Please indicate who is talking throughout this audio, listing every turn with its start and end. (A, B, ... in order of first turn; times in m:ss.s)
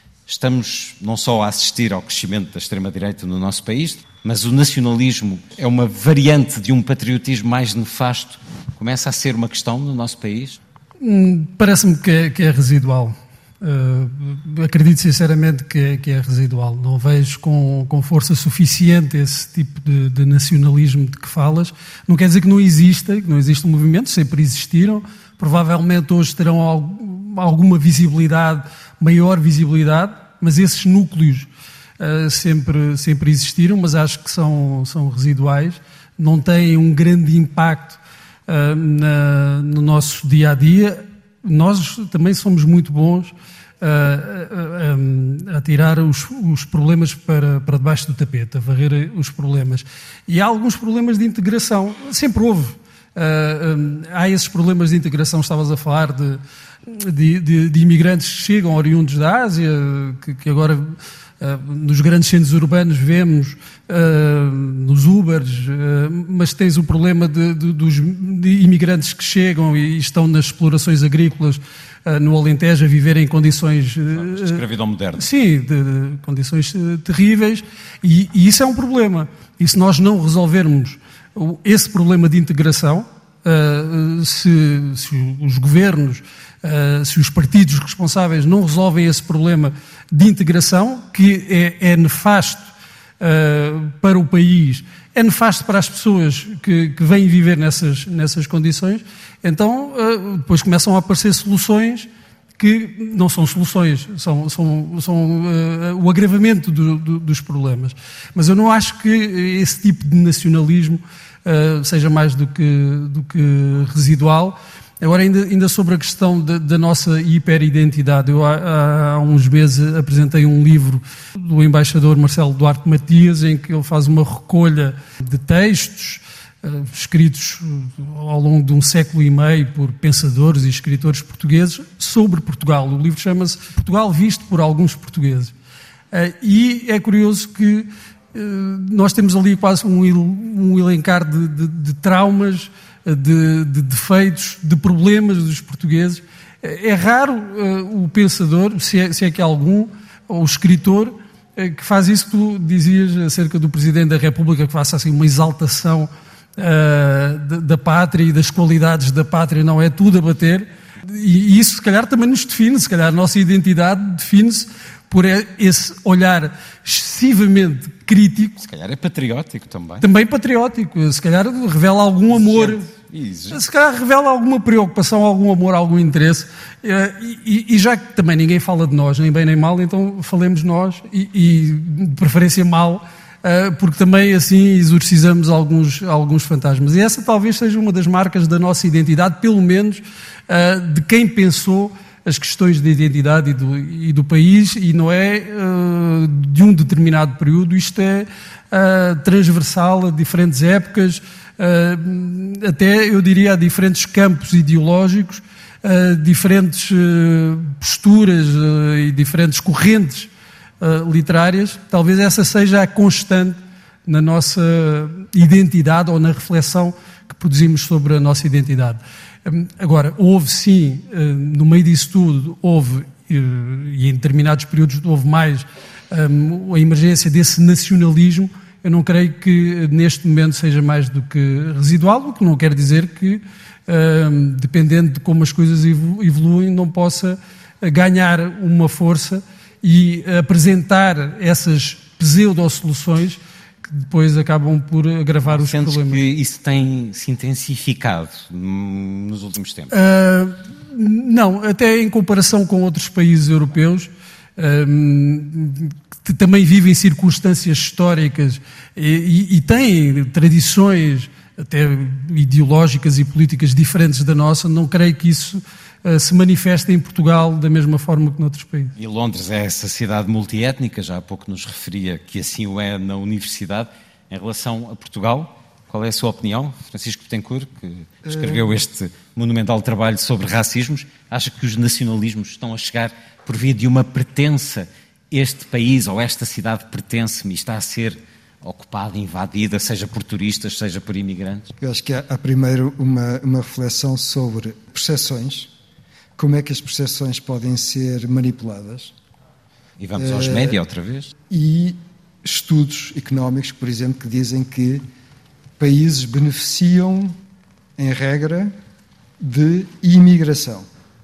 0:00.3-0:10.6 A
0:11.0-0:31.5 B
0:32.0-1:14.6 B
1:14.1-1:15.2 A
1:15.2-1:32.6 B
1:33.2-2:15.5 B
2:16.1-2:48.6 B
2:48.6-2:50.1 A
2:50.0-2:52.9 B
2:52.3-2:53.6 A
2:53.5-3:30.3 B
3:30.8-4:06.2 B
4:05.5-4:09.9 A
4:09.9-4:29.0 B
4:29.0-4:51.7 A
4:38.2-4:38.8 C
4:51.8-4:55.7 C
4:56.4-4:59.1 C
5:00.0-5:01.3 A
5:00.2-5:00.8 C
5:01.5-5:05.0 C
5:05.8-5:07.4 C
5:08.0-5:08.7 C
5:09.4-5:10.9 C